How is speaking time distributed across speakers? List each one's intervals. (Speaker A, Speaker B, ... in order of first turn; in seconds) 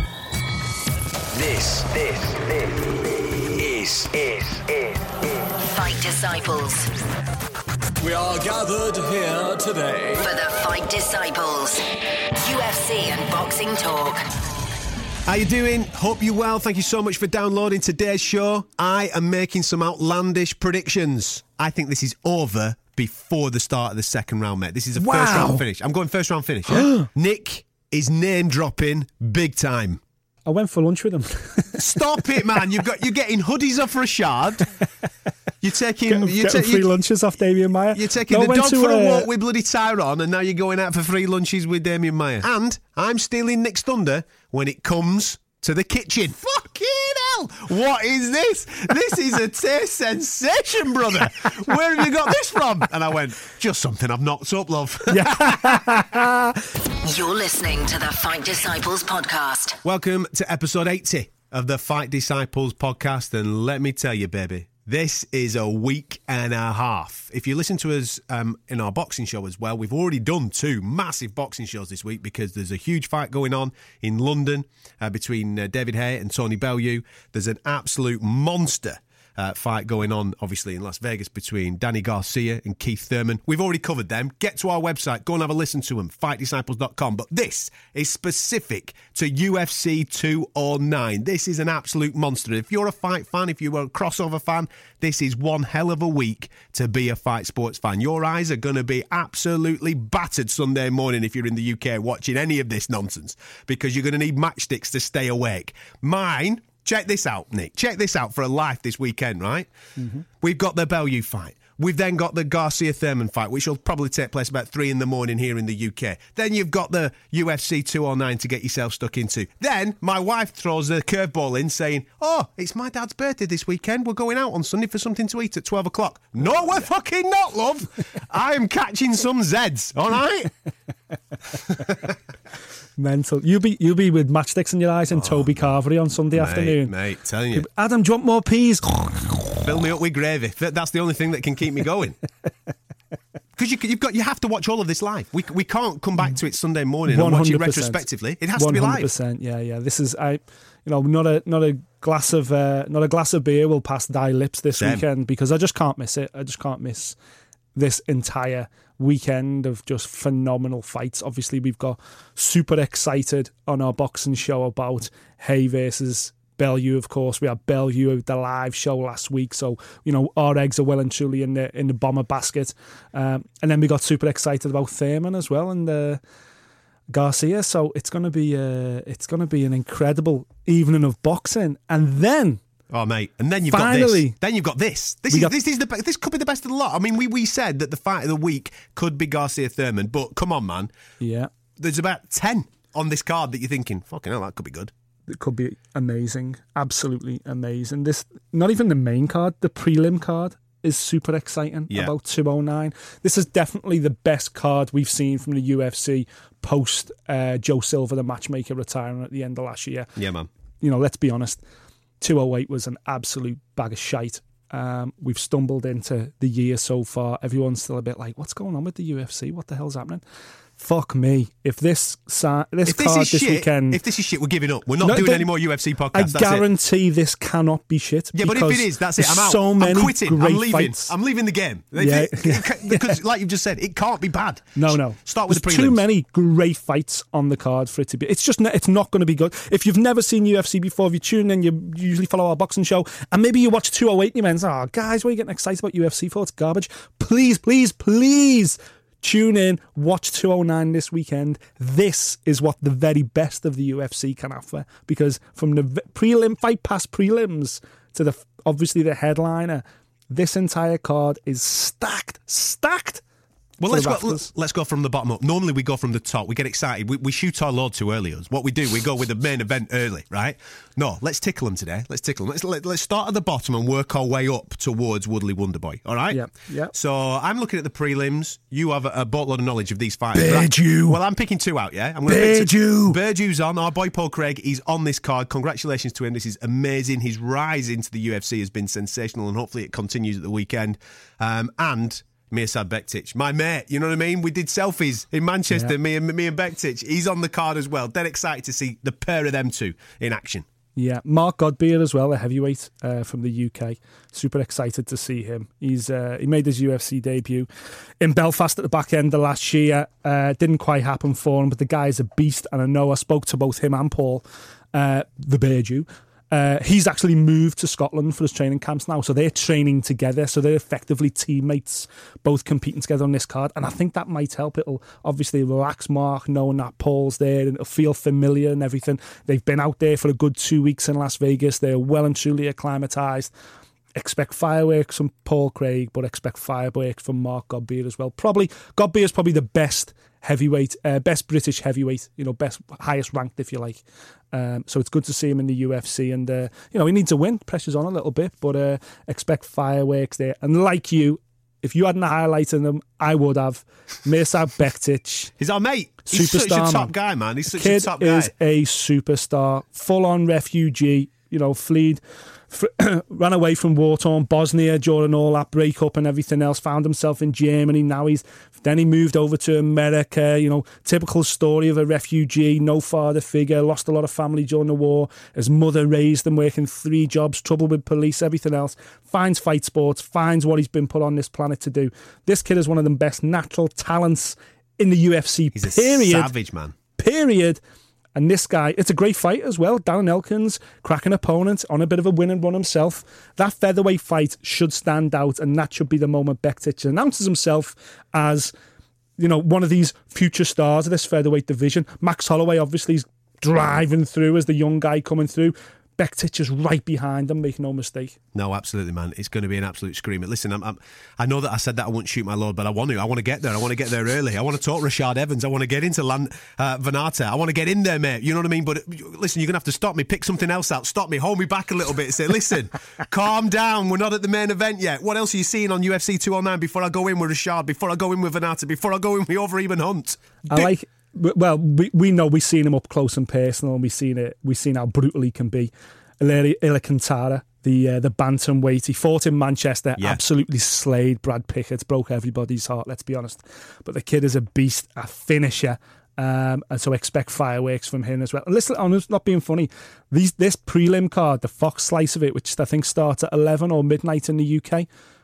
Speaker A: 1.3-2.6, 3.6-4.6
Speaker B: 5.6-6.9, 10.2-11.8, 12.3-14.2, 57.0-59.8
Speaker C: 8.0-10.2
Speaker D: 15.2-30.0, 31.8-34.7, 35.6-36.9, 37.9-55.8, 59.8-109.7, 110.4-130.5, 131.7-131.9, 135.2-135.5, 136.3-137.7, 139.6-142.2, 143.6-149.1, 154.8-155.0, 182.9-190.9, 191.8-194.9, 210.2-210.5, 222.9-226.6, 228.3-236.0, 263.8-300.6, 355.6-358.5, 385.7-386.9, 408.5-430.9
Speaker E: 25.0-25.6, 26.7-27.0, 30.4-32.6, 36.1-39.3, 55.1-56.6, 110.0-110.2, 133.0-136.9, 137.5-139.7, 147.1-148.0, 148.6-157.2, 157.8-176.2, 177.1-182.6, 183.7-184.3, 191.2-191.5, 195.3-210.1, 210.8-211.6, 212.2-220.2, 220.8-224.0, 225.0-225.5, 226.1-231.1, 232.0-233.2, 234.8-263.2, 263.9-264.5, 276.3-276.9, 280.3-281.2, 282.3-283.2, 301.0-307.7, 308.2-333.5, 334.1-355.5, 356.3-357.1, 357.7-386.5, 387.2-387.8, 388.4-398.7, 399.4-408.4, 430.7-455.1